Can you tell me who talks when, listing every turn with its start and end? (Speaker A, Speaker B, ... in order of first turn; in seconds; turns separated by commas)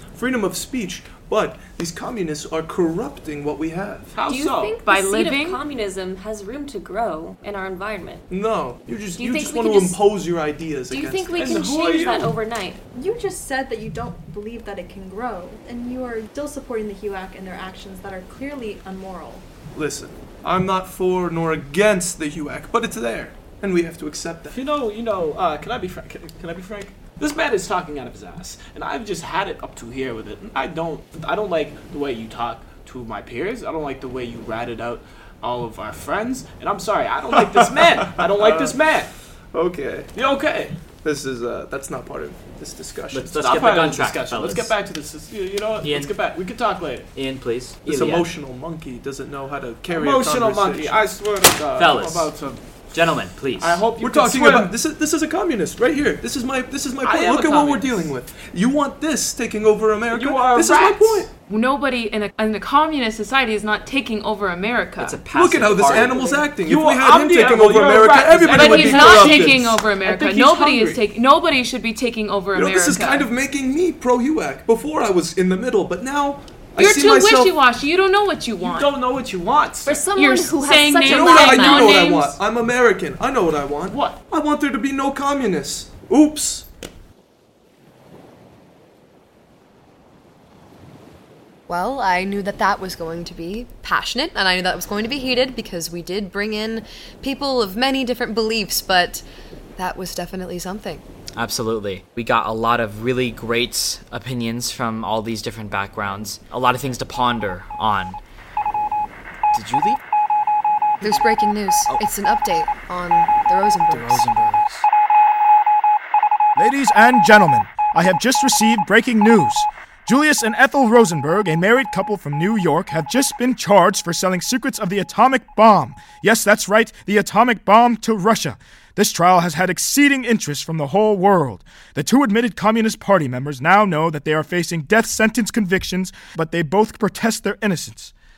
Speaker A: 0.1-4.1, Speaker B: 4.1-4.8, Speaker C: 4.2-8.2, Speaker D: 4.8-5.6, Speaker A: 8.3-11.7, Speaker C: 9.1-10.0, Speaker C: 10.9-12.8, Speaker B: 11.3-12.3, Speaker E: 12.9-19.4, Speaker A: 19.7-24.6, Speaker B: 24.5-39.1, Speaker A: 38.4-38.9, Speaker A: 39.5-40.1, Speaker B: 40.1-40.7, Speaker A: 41.0-43.4, Speaker F: 43.1-44.7, Speaker B: 43.4-47.1, Speaker F: 45.8-46.1, Speaker F: 47.1-48.3, Speaker A: 47.9-51.0, Speaker B: 49.9-52.6, Speaker F: 51.8-52.3, Speaker F: 52.9-53.8, Speaker B: 53.6-54.7, Speaker A: 54.0-61.3, Speaker B: 57.0-58.1, Speaker B: 60.1-61.3, Speaker D: 61.5-65.2, Speaker F: 65.0-66.4, Speaker A: 65.3-70.5, Speaker B: 65.7-71.0, Speaker D: 68.5-73.3, Speaker A: 72.5-77.5, Speaker D: 76.8-78.9, Speaker B: 78.6-80.1, Speaker C: 79.8-82.1, Speaker D: 80.1-82.4, Speaker A: 81.0-86.7, Speaker B: 83.9-84.2, Speaker G: 91.7-99.2, Speaker G: 99.8-101.0, Speaker F: 101.3-108.2, Speaker F: 109.5-110.0, Speaker G: 111.0-114.2, Speaker F: 113.9-114.8, Speaker H: 116.5-138.1